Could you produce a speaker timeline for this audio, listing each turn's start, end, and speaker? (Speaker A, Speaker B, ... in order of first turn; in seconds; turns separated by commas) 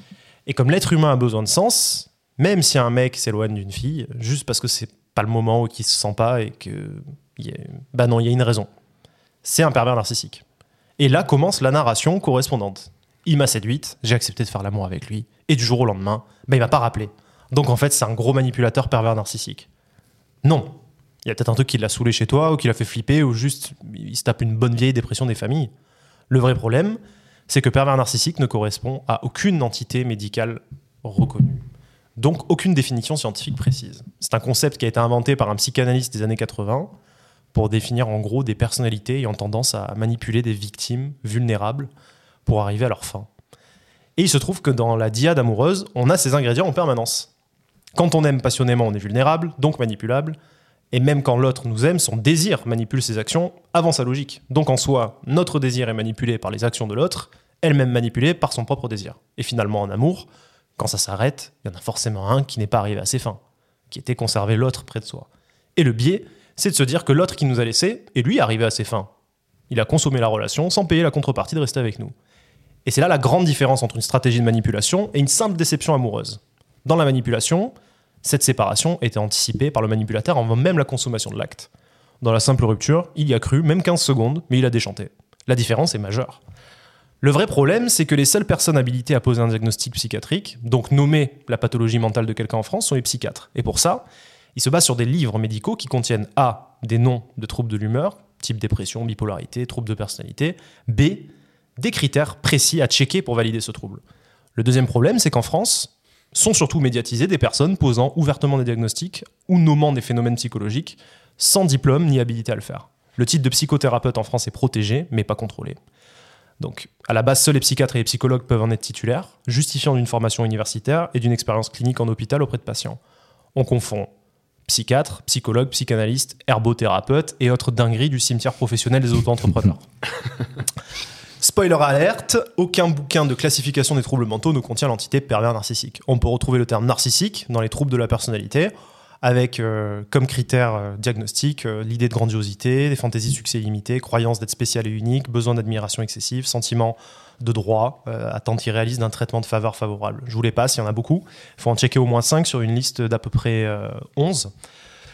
Speaker A: 0.5-8.7, Speaker A: 9.4-10.4, Speaker A: 11.0-19.7, Speaker A: 20.4-25.7, Speaker A: 26.3-31.6, Speaker A: 32.2-36.9, Speaker A: 37.5-41.9, Speaker A: 42.5-43.3, Speaker A: 44.2-47.3, Speaker A: 47.9-50.4, Speaker A: 50.9-69.1, Speaker A: 69.7-72.1, Speaker A: 72.8-81.7, Speaker A: 82.2-86.4, Speaker A: 87.2-94.0, Speaker A: 94.5-104.0, Speaker A: 104.5-115.8, Speaker A: 116.6-123.0, Speaker A: 123.5-124.1, Speaker A: 124.7-129.8, Speaker A: 131.4-154.5